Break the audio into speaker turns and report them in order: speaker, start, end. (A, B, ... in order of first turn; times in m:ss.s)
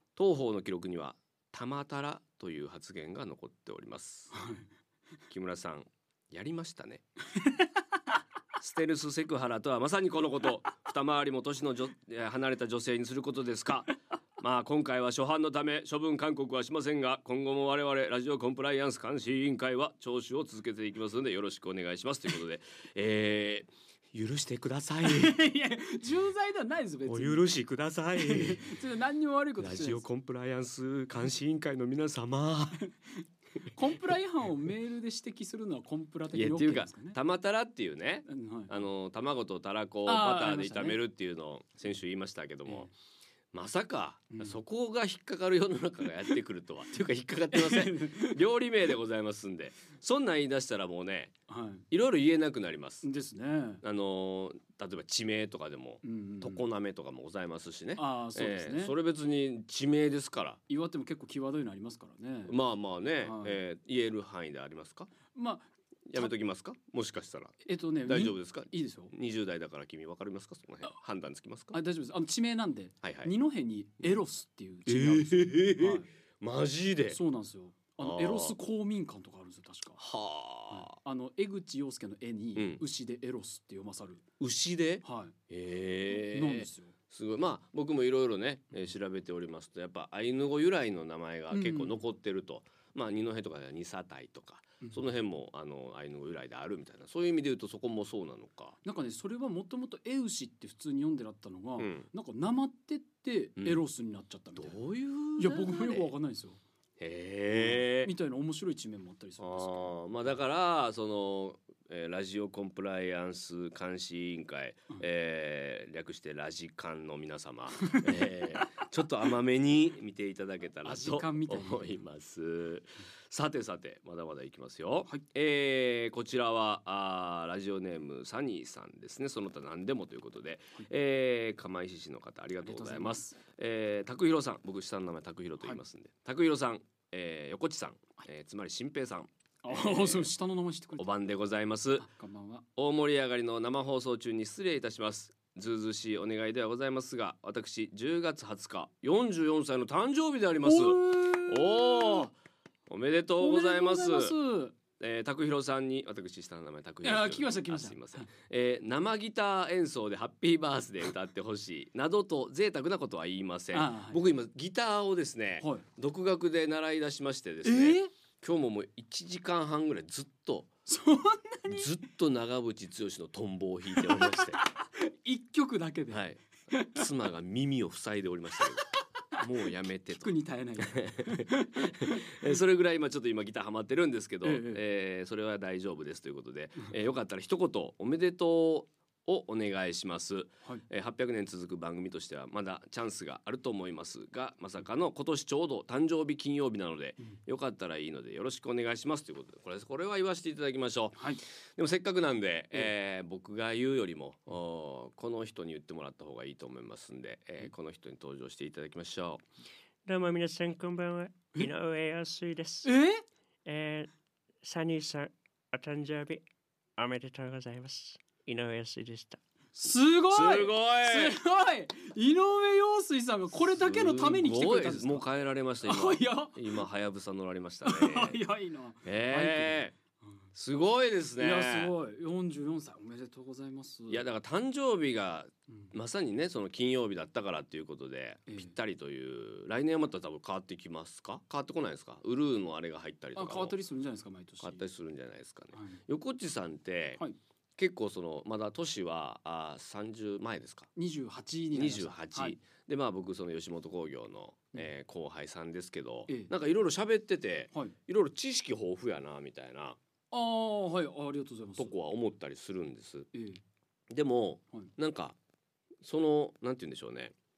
0:00.1-0:04.4 A
0:04.3-0:04.7 B
0:05.3-0:07.0 A
0:07.4-0:07.6 B
0:08.6-0:25.4 A
0:25.0-0:27.5 B
0:27.1-0:28.8 A
0:28.2-0:30.0 B
0:29.6-0:32.9 A
0:33.7-0:37.2 B
0:36.3-0:42.9 A
0:38.2-0:38.8 B
0:40.0-0:41.0 B
0:43.5-0:51.3 A
0:44.3-0:44.6 B
0:47.5-0:48.4 B
0:51.5-0:51.8 B
0:51.9-0:53.0 A
0:53.0-0:53.8 B
0:53.8-1:00.6 A
0:56.0-0:56.6 B
0:58.0-0:58.9 B
1:00.7-1:02.5 B
1:02.5-1:05.1 A
1:03.2-1:03.6 B
1:05.3-1:06.3 B
1:06.1-1:11.8 A
1:07.6-1:09.1 B
1:11.7-1:16.1 B
1:13.0-1:13.3 A
1:14.8-1:17.2 A
1:17.1-1:20.0 B
1:18.0-1:18.6 A
1:20.0-1:21.0 A
1:20.7-1:24.2 B
1:22.6-1:22.8 A
1:24.4-1:38.8 A
1:25.0-1:25.3 B
1:26.1-1:26.9 B
1:31.5-1:32.0 B
1:38.8-1:44.8 B
1:41.8-1:42.1 A
1:44.6-1:46.1 A
1:45.4-1:46.6 B
1:47.0-1:48.1 A
1:47.5-1:49.9 B
1:49.4-2:20.3 A
1:57.8-1:58.6 B
2:00.8-2:02.0 B
2:12.6-2:13.3 B
2:19.6-2:21.1 B
2:21.0-2:22.1 A
2:22.0-2:22.6 B
2:22.8-2:32.3 A
2:30.6-2:32.3 B
2:32.9-2:34.4 A
2:33.4-2:34.8 B
2:35.0-2:50.7 A
2:37.0-2:38.3 B
2:43.7-2:44.2 B
2:47.6-2:48.1 B
2:50.8-2:51.9 B
2:51.7-2:54.6 A
2:53.9-2:57.1 B
2:56.1-3:29.4 A
3:00.2-3:02.6 B
3:04.4-3:04.8 B
3:21.2-3:21.4 B
3:30.0-3:32.9 C
3:32.8-3:33.2 B
3:33.6-3:34.1 C
3:34.6-3:36.4 C
3:37.0-3:39.4 C
3:39.7-3:45.2 B
3:40.3-3:41.4 A
3:43.7-3:48.4 A
3:45.8-3:46.8 B
3:47.8-3:50.3 B
3:49.0-3:49.9 A
3:50.5-3:51.9 A
3:51.4-3:54.2 B
3:54.1-4:03.7 A
3:58.5-3:58.7 B
4:03.3-4:04.8 B
4:04.6-4:07.2 A
4:05.7-4:06.0 B
4:07.8-4:10.9 A
4:11.0-4:12.6 B
4:11.7-4:20.0 A
4:20.3-4:21.9 B
4:21.8-4:23.3 A
4:23.3-4:23.6 B
4:24.1-4:25.4 A
4:26.0-4:27.3 A